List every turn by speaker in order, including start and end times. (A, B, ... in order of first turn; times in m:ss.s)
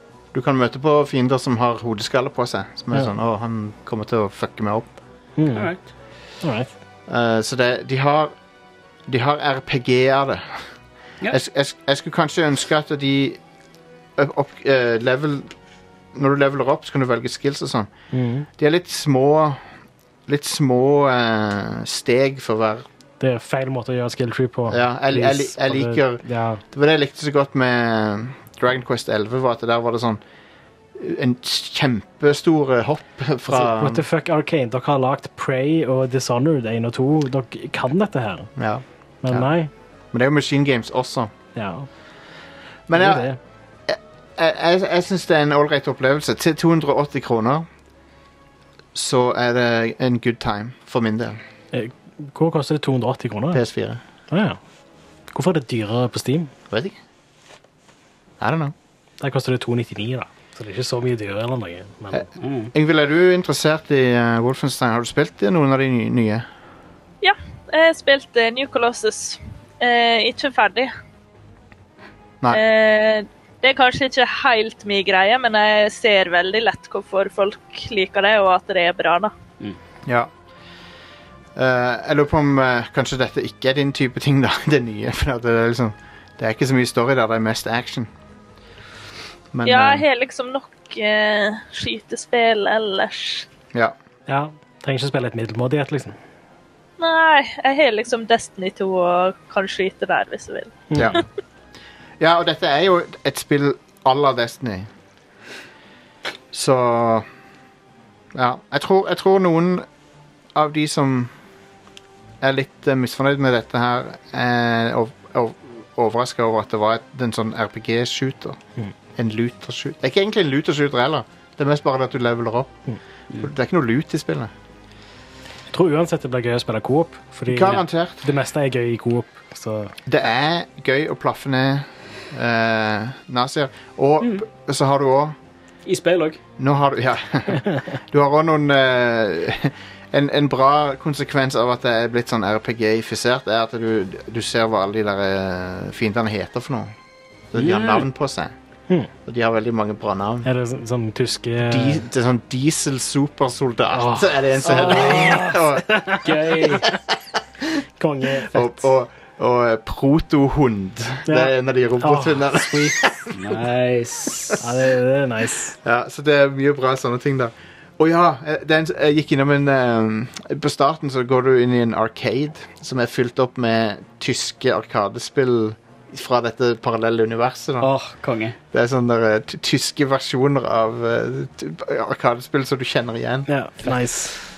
0:00.3-0:04.9 A
0:05.4-0:05.7 B
0:05.5-0:05.8 C
0:06.4-0:06.7 B
0:07.1-0:08.4 A
0:09.1-0:10.7 A
0:11.3-0:13.4 A
0:14.2-0:15.5 A
0:16.1-0:17.9 A
0:18.1-0:18.5 B
0:18.6-0:19.6 A
0:20.3-0:22.8 A
0:23.2-0:26.6 B
0:24.7-0:30.2 A
0:31.0-0:34.0 A
0:33.5-0:38.5 B
0:38.6-0:39.5 A
0:39.2-0:39.7 B
0:40.1-0:41.3 A
0:41.6-0:41.9 B
0:42.9-0:43.3 A
0:42.9-0:43.4 B
0:43.9-0:47.7 A
0:49.0-0:51.4 A
0:51.7-0:53.6 B
0:53.5-0:54.0 A
0:54.3-0:54.6 B
0:55.3-0:56.5 B
0:56.7-0:57.0 A
0:58.4-0:58.8 A
0:59.2-1:02.3 B
1:02.1-1:06.5 A
1:02.4-1:02.7 C
1:07.2-1:10.9 D
1:12.5-1:19.3 D
1:20.0-1:20.3 A
1:21.6-1:28.1 A
1:29.5-1:30.0 A
1:29.6-1:33.5 D
1:34.3-1:36.2 B
1:37.0-1:40.8 D
1:40.9-1:41.2 B
1:40.9-1:41.2 A
1:42.2-1:44.9 A
1:46.5-1:47.3 A
1:48.3-1:49.9 A
1:50.6-1:51.3 A
1:52.4-1:58.6 A
1:59.2-2:02.8 A
2:03.4-2:04.5 A
2:05.7-2:09.9 B
2:07.5-2:08.3 A
2:10.1-2:15.4 A
2:15.9-2:16.4 C
2:16.6-2:26.9 A
2:27.5-2:28.5 A
2:27.6-2:28.1 C
2:29.2-2:30.5 A
2:30.4-2:32.0 B
2:31.6-2:36.2 A
2:33.9-2:37.0 B
2:34.7-2:35.6 C
2:36.2-2:36.9 C
2:38.0-2:38.8 B
2:38.4-2:43.3 A
2:41.3-2:43.1 B
2:43.3-2:44.6 C
2:44.6-2:45.8 B
2:45.8-2:57.9 A
2:57.8-2:58.6 C
2:58.7-3:03.5 A
3:03.5-3:04.4 B